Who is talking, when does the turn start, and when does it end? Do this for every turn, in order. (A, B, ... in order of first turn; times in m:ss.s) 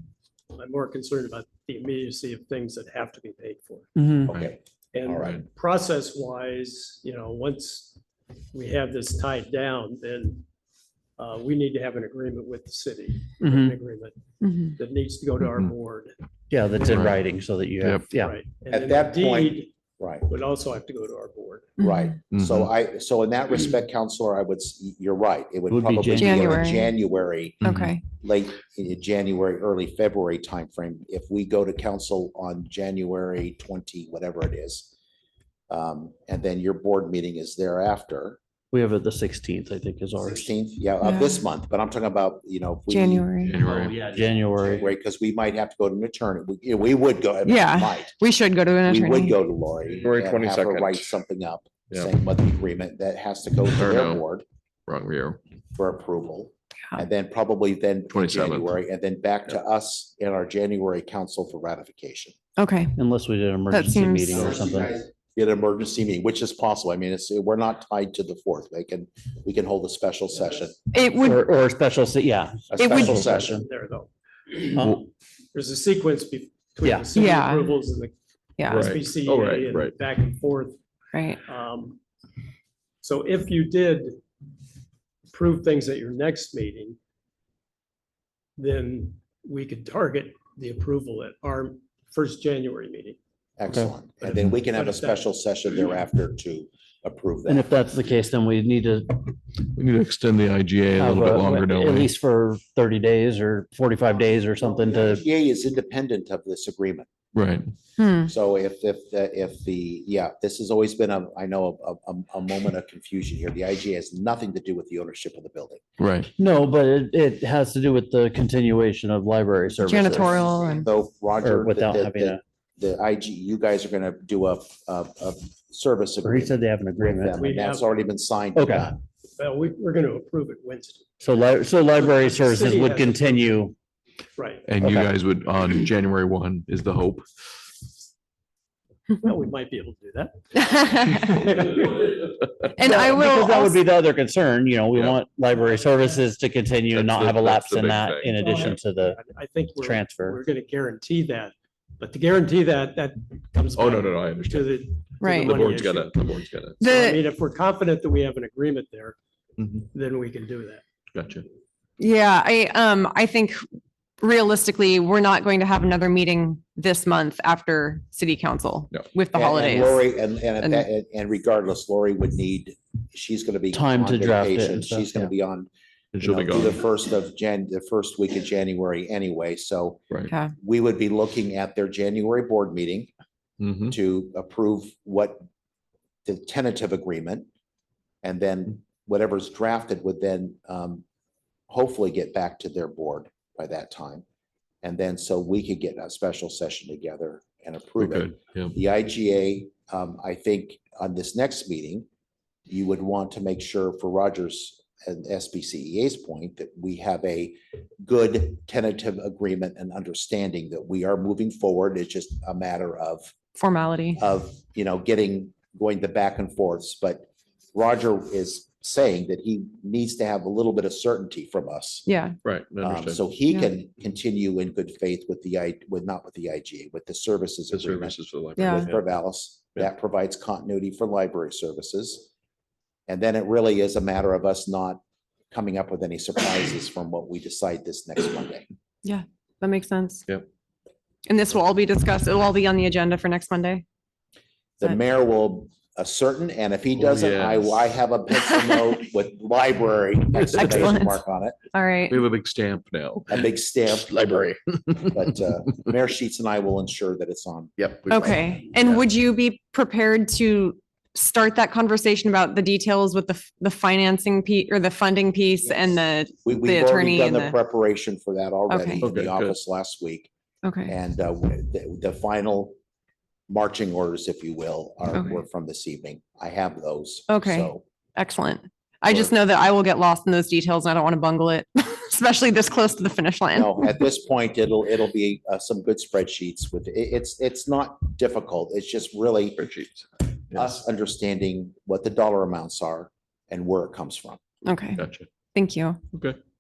0:00.5-0:03.9 A
0:04.0-0:04.3 B
0:04.3-0:05.4 C
0:04.9-0:08.0 A
0:08.5-0:10.4 A
0:11.2-0:14.2 A
0:13.4-0:13.7 B
0:14.4-0:14.8 D
0:14.7-0:16.1 A
0:16.5-0:18.4 B
0:16.7-0:17.2 A
0:16.8-0:17.2 E
0:17.8-0:18.1 E
0:18.2-0:19.7 A
0:18.7-0:20.3 C
0:20.3-0:21.8 A
0:21.8-0:22.1 D
0:21.8-0:34.9 C
0:22.2-0:22.7 E
0:25.7-0:26.8 B
0:26.2-0:26.9 D
0:27.6-0:28.0 E
0:27.6-0:28.0 D
0:35.7-0:38.4 C
0:38.7-0:40.5 B
0:40.2-0:43.3 C
0:41.0-0:41.4 D
0:42.9-0:43.6 D
0:43.4-0:44.1 E
0:43.6-0:44.9 B
0:44.6-0:48.1 C
0:47.4-0:49.4 D
0:48.8-0:54.4 C
0:50.0-0:51.2 E
0:53.8-0:54.2 E
0:54.9-0:55.4 E
0:55.7-1:02.3 C
0:58.1-0:58.8 E
1:02.6-1:02.9 D
1:03.0-1:05.0 B
1:03.7-1:04.6 D
1:04.3-1:10.8 C
1:10.9-1:11.4 D
1:11.2-1:13.6 B
1:12.7-1:13.6 C
1:12.8-1:13.2 D
1:12.8-1:14.9 A
1:14.8-1:15.0 E
1:15.5-1:18.1 A
1:17.1-1:17.7 D
1:18.6-1:18.9 D
1:18.6-1:20.8 A
1:18.7-1:19.9 E
1:21.1-1:21.4 D
1:21.4-1:22.0 A
1:23.0-1:24.2 A
1:25.3-1:27.0 A
1:28.6-1:33.2 A
1:33.6-1:37.7 C
1:34.2-1:36.0 A
1:37.4-1:39.3 B
1:39.7-1:42.1 E
1:41.0-1:45.2 B
1:44.6-1:47.1 C
1:47.3-1:47.6 E
1:48.0-1:48.3 D
1:48.2-1:55.9 C
1:56.0-1:56.3 E
1:56.4-2:00.4 B
1:59.8-2:00.9 D
2:00.1-2:06.5 C
2:01.4-2:02.4 B
2:06.2-2:07.4 B
2:07.1-2:09.0 C
2:07.2-2:07.9 A
2:08.5-2:08.9 B
2:09.4-2:11.0 A
2:11.2-2:13.7 B
2:12.0-2:13.6 A
2:14.4-2:14.6 A
2:14.7-2:17.2 E
2:14.8-2:15.1 B
2:19.1-2:22.3 A
2:20.5-2:21.4 D
2:22.8-2:23.8 D
2:22.8-2:29.2 B
2:24.9-2:25.2 E
2:25.6-2:26.2 A
2:26.9-2:28.8 E
2:28.4-2:36.2 A
2:29.8-2:30.4 B
2:33.7-2:36.8 E
2:35.2-2:35.6 D
2:36.8-2:37.2 D
2:36.8-2:39.2 A
2:39.6-2:39.8 E
2:39.9-2:40.8 A
2:41.1-2:41.4 E
2:42.0-2:43.6 D
2:44.2-2:50.0 D
2:49.3-2:55.7 C
2:50.6-2:50.9 D
2:53.7-2:55.3 B
2:56.1-2:56.8 E
2:56.2-3:03.1 C
3:03.6-3:04.0 E
3:03.9-3:05.4 C
3:06.2-3:07.5 C
3:08.2-3:11.0 C
3:11.7-3:14.2 C
3:14.8-3:22.1 C
3:18.0-3:18.8 E
3:22.7-3:33.3 C
3:33.6-3:34.2 D
3:34.2-3:42.1 C
3:42.1-3:42.4 D
3:42.4-3:43.3 E
3:42.8-3:52.3 C
3:47.7-3:49.1 E
3:48.6-3:48.9 D
3:53.1-3:58.6 C
3:59.0-4:00.2 D
4:01.2-4:03.8 D
4:04.8-4:11.6 C
4:07.0-4:07.9 E
4:10.3-4:11.2 D
4:10.5-4:10.8 E
4:11.7-4:12.2 D
4:12.1-4:15.3 E
4:13.3-4:17.7 C
4:17.8-4:18.7 E
4:18.1-4:27.5 D
4:26.4-4:30.3 C
4:28.7-4:29.0 D
4:29.0-4:29.6 E
4:30.6-4:30.9 D
4:30.9-4:32.8 C
4:33.5-4:37.8 C
4:35.1-4:35.4 D
4:37.3-4:44.0 D
4:43.5-4:49.7 C
4:49.6-4:50.8 E
4:50.5-4:54.4 C
4:54.6-4:55.0 D
4:54.9-4:55.3 E
4:55.5-4:56.0 D
4:56.1-4:56.4 E